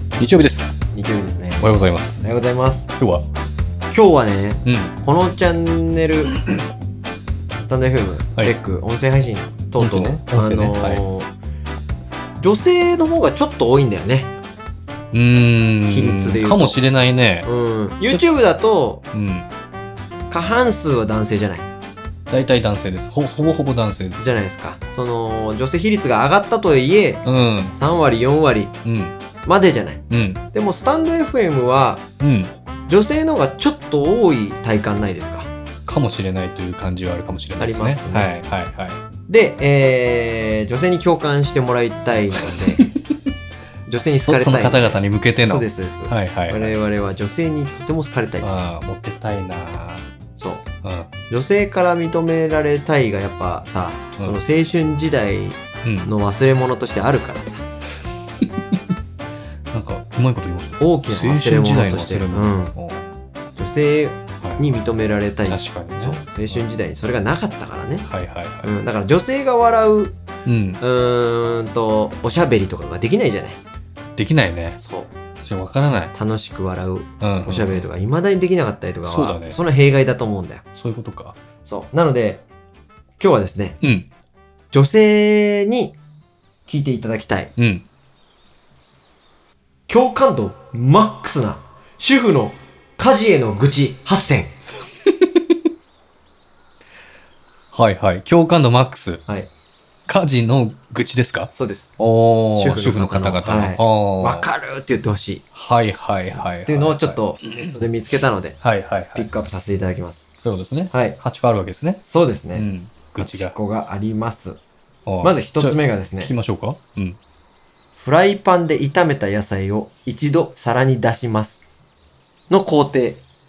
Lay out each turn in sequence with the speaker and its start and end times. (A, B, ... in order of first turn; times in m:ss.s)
0:00.2-0:00.8 A
0:00.9-0:01.7 B
0:01.6-0:02.2 A
0:02.2-0:02.9 B
0:03.0-0:03.2 A
0:03.9-0:06.3 B
0:04.6-0:04.9 A
0:07.6-0:11.3 B
0:09.8-0:11.0 A
0:12.4-0:14.3 B
0:15.1-0:17.5 A
0:15.8-0:16.8 B
0:17.4-0:19.0 B
0:19.1-0:19.5 A
0:20.3-0:21.6 B
0:22.3-0:24.3 A
0:24.2-0:27.2 B
0:27.2-0:27.7 A
0:27.8-0:28.7 B
0:28.8-0:29.1 A
0:29.4-0:32.0 B
0:30.1-0:30.4 A
0:32.2-0:32.5 A
0:32.9-0:35.5 B
0:35.8-0:39.0 A
0:37.6-0:38.3 B
0:39.3-0:42.8 B
0:42.4-0:42.9 A
0:43.9-0:48.5 B
0:44.2-0:46.7 A
0:48.4-0:50.1 A
0:50.4-0:50.6 B
0:50.8-0:51.1 A
0:51.3-0:57.6 B
0:55.8-0:56.1 A
0:58.4-0:58.8 A
0:59.7-1:03.1 A
1:00.8-1:02.7 B
1:03.6-1:08.1 B
1:05.4-1:06.6 A
1:08.0-1:08.7 A
1:08.6-1:10.2 B
1:10.4-1:10.8 A
1:10.8-1:13.6 B
1:14.2-1:14.8 A
1:14.8-1:15.1 B
1:15.4-1:16.1 A
1:16.1-1:20.6 B
1:17.2-1:17.9 A
1:19.0-1:19.6 A
1:20.8-1:21.4 A
1:21.6-1:22.4 B
1:23.2-1:23.8 B
1:23.8-1:24.1 A
1:24.7-1:25.9 B
1:26.7-1:27.5 B
1:27.6-1:27.8 A
1:29.9-1:34.5 B
1:37.7-1:39.2 A
1:40.1-1:44.5 A
1:41.5-1:41.9 B
1:42.5-1:45.4 B
1:45.5-1:47.8 A
1:46.4-1:48.6 B
1:48.6-1:49.3 A
1:49.1-1:50.3 B
1:50.4-1:52.0 A
1:50.9-1:51.2 B
1:52.0-1:52.6 B
1:52.5-1:53.6 A
1:53.2-1:54.6 B
1:55.0-1:57.2 A
1:55.2-1:56.3 B
1:58.0-2:01.6 B
2:02.5-2:03.2 B